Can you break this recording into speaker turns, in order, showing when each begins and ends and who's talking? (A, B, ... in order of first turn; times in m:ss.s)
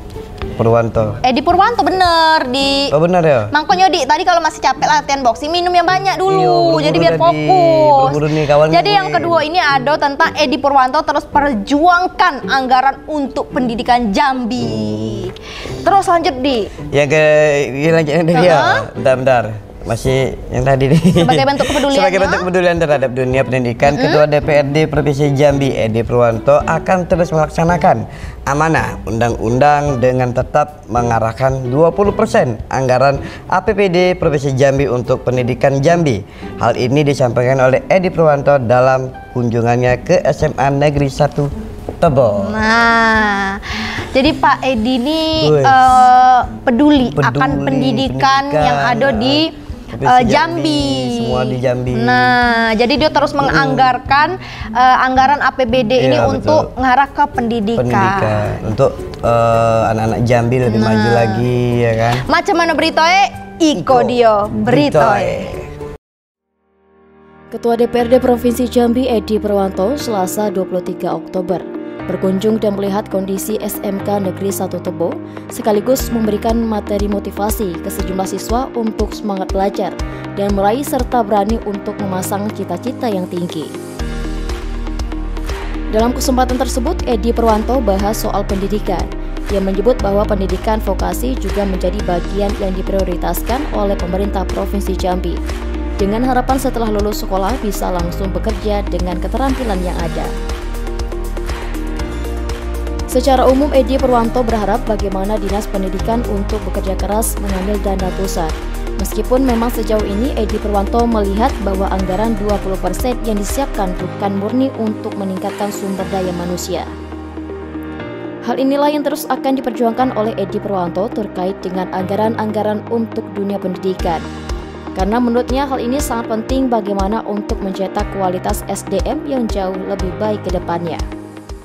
0:00.6-0:01.2 A
0:01.2-0:02.9 B
0:02.9-0:03.5 A
0:03.5-0:08.2 B
0:06.3-0:09.4 A
0:08.7-0:16.7 B
0:14.6-0:15.2 A
0:16.9-0:42.6 A
0:18.3-0:18.8 B
0:21.2-0:22.4 B
0:23.9-0:24.2 B
0:42.4-0:49.5 B
0:45.4-0:46.0 A
0:47.2-0:52.4 A
0:50.0-0:58.4 B
0:53.4-0:53.9 A
0:56.0-0:56.7 A
0:57.8-1:02.2 A
1:00.7-1:01.4 B
1:02.3-1:05.4 B
1:03.7-1:05.7 A
1:07.5-1:23.7 C
1:25.9-1:35.4 C
1:36.0-1:40.3 C
1:43.1-1:56.9 C
1:58.4-2:04.2 C
2:05.0-2:11.0 C